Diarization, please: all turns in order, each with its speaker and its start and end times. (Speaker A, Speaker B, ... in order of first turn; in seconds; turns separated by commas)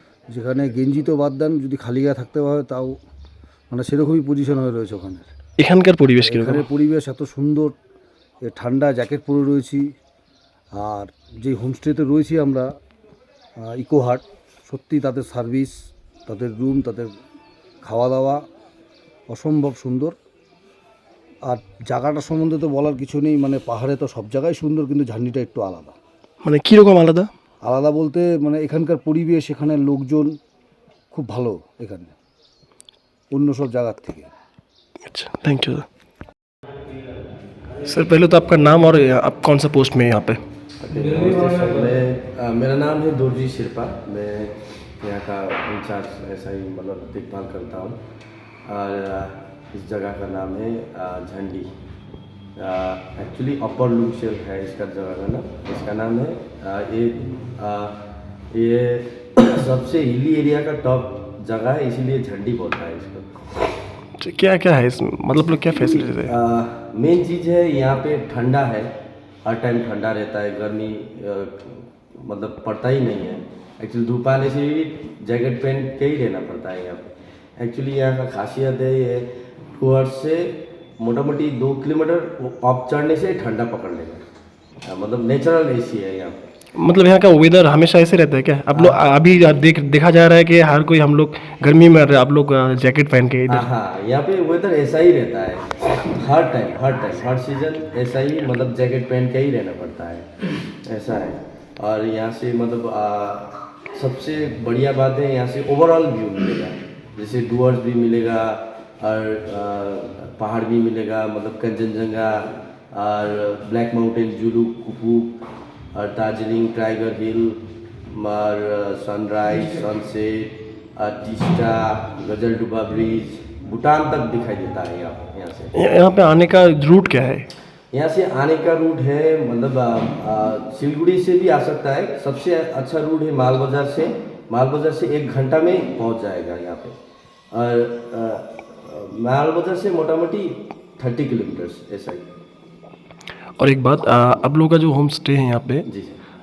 Speaker A: 0.3-3.0, Speaker A: 3.7-5.3, Speaker B: 5.6-6.7, Speaker A: 6.2-7.7, Speaker A: 8.4-9.9, Speaker A: 10.8-12.7, Speaker A: 13.6-15.7, Speaker A: 16.3-17.1, Speaker A: 17.8-18.4, Speaker A: 19.3-20.1, Speaker A: 21.4-26.0, Speaker B: 26.4-27.3, Speaker A: 27.6-30.4, Speaker A: 31.1-32.1, Speaker A: 33.3-34.3, Speaker B: 35.1-35.9, Speaker B: 37.9-40.4, Speaker C: 40.8-48.0, Speaker C: 48.7-51.7, Speaker C: 52.6-58.0, Speaker C: 58.5-63.3, Speaker B: 64.2-66.3, Speaker C: 65.7-68.9, Speaker C: 69.4-84.2, Speaker C: 84.8-86.4, Speaker B: 86.8-93.7, Speaker C: 88.7-89.0, Speaker C: 93.5-100.3, Speaker C: 100.8-115.4, Speaker C: 115.9-125.7, Speaker B: 125.8-127.5, Speaker C: 127.9-136.9, Speaker C: 137.5-142.3, Speaker B: 143.6-145.9, Speaker C: 145.9-146.2